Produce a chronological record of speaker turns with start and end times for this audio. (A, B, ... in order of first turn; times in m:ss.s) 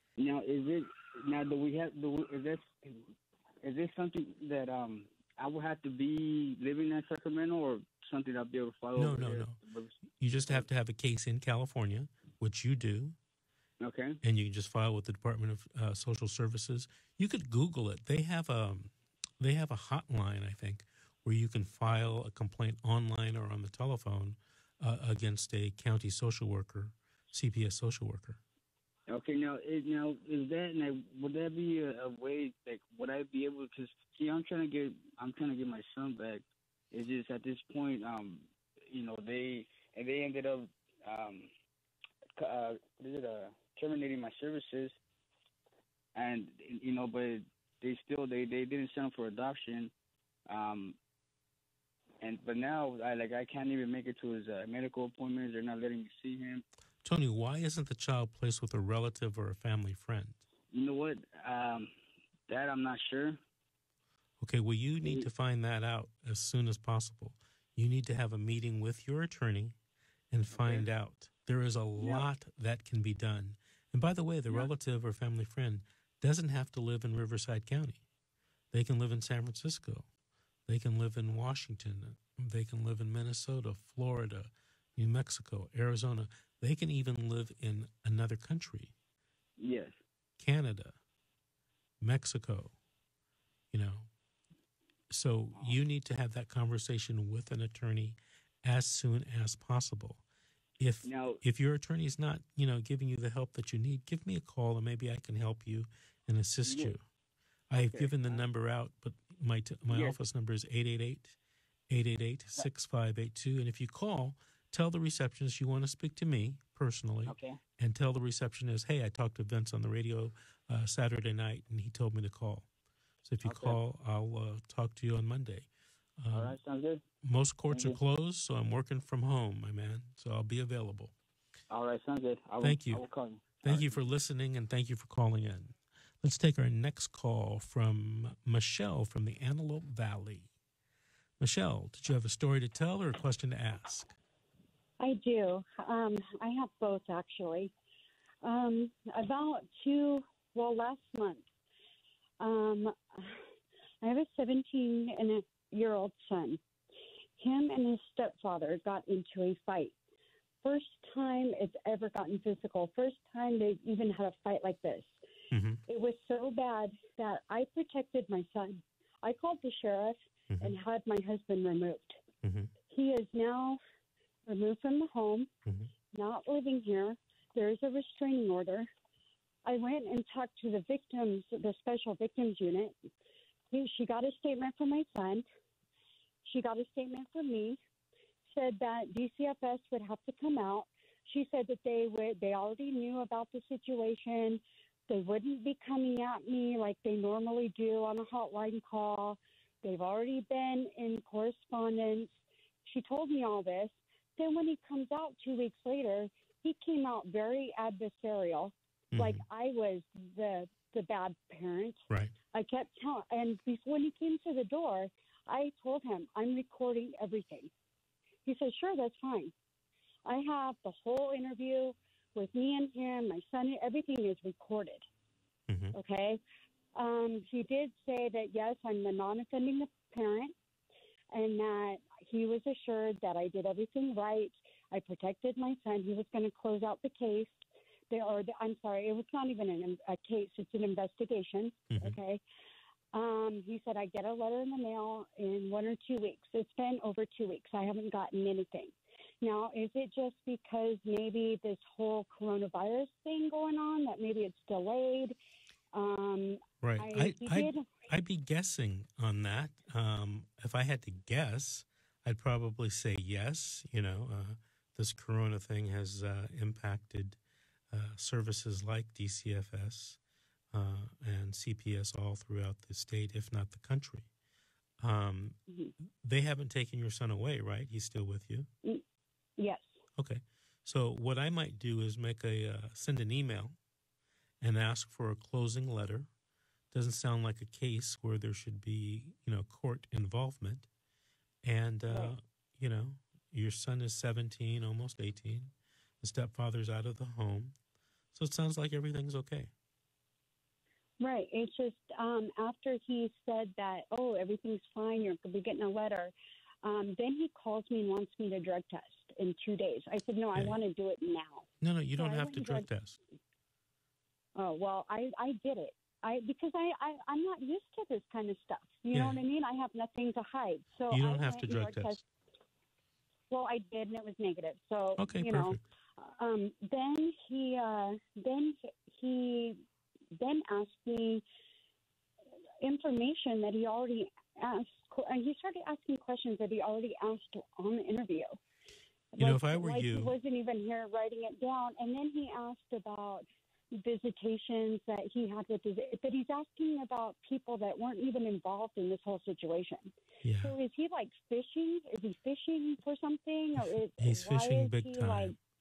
0:00.2-0:03.1 A
0:03.6-0:10.0 A
0:09.0-0:09.6 B
0:10.2-0:13.2 B
0:13.8-0:14.2 A
0:14.2-0:28.4 B
0:29.1-0:41.5 A
0:42.4-0:45.0 A
0:46.2-0:49.9 A
0:50.5-0:51.0 A
0:52.2-0:56.6 A
0:57.0-1:00.4 B
1:00.7-1:01.9 A
1:02.5-1:03.4 A
1:04.4-1:09.8 B
1:05.0-1:05.3 A
1:10.3-1:18.0 B
1:10.5-1:10.9 A
1:12.0-1:12.3 A
1:18.7-1:20.1 B
1:20.7-1:28.9 B
1:29.6-1:30.0 A
1:30.4-1:31.0 B
1:32.0-1:32.8 B
1:33.7-1:34.1 B
1:35.1-1:40.2 B
1:40.8-1:47.0 B
1:41.0-1:41.4 A
1:46.6-1:47.0 A
1:47.7-1:51.4 B
1:47.7-1:48.4 A
1:49.9-1:50.2 A
1:51.9-2:02.7 B
1:57.3-1:57.6 A
2:03.2-2:05.7 B
2:03.4-2:03.8 A
2:06.2-2:06.6 B
2:06.3-2:07.0 A
2:07.2-2:11.1 B
2:07.7-2:08.0 A
2:11.7-2:14.1 A
2:12.6-2:13.0 B
2:13.6-2:20.5 B
2:21.4-2:24.1 B
2:25.0-2:27.7 C
2:28.4-2:31.4 C
2:32.4-2:33.4 C
2:34.0-2:36.6 C
2:37.4-2:40.0 C
2:40.6-2:45.2 C
2:45.5-2:45.8 B
2:45.9-2:52.2 C
2:50.5-2:50.8 B
2:52.4-2:52.7 B
2:52.9-2:53.8 C
2:54.4-2:55.5 C
2:56.1-2:58.9 C
2:59.6-3:03.0 C
3:03.7-3:05.5 C
3:06.4-3:07.8 C
3:08.5-3:37.7 C
3:29.1-3:29.4 B
3:38.4-3:39.5 C
3:40.2-3:45.0 C
3:45.7-3:46.0 B
3:45.9-3:46.4 C
3:47.0-3:50.6 C
3:51.3-4:02.4 C
4:01.9-4:02.2 B
4:03.1-4:15.4 C
4:15.9-4:17.9 C
4:16.8-4:27.4 B
4:27.9-4:30.2 B
4:30.7-4:34.3 B
4:35.0-4:35.6 B
4:36.2-4:38.7 B
4:39.6-4:40.0 C
4:40.2-4:43.8 B
4:44.6-4:46.3 B
4:46.9-4:50.9 B
4:51.6-4:57.7 B
4:58.3-4:59.7 B
5:01.2-5:12.9 C
5:11.8-5:13.2 B
5:14.6-5:22.2 C
5:19.1-5:19.4 B
5:21.1-5:22.2 B
5:23.5-5:29.8 C
5:25.2-5:25.8 B
5:30.4-5:31.4 C
5:32.8-5:38.6 C
5:39.3-5:55.6 C
5:39.4-5:40.4 B
5:50.4-5:50.8 B
5:53.7-5:55.6 B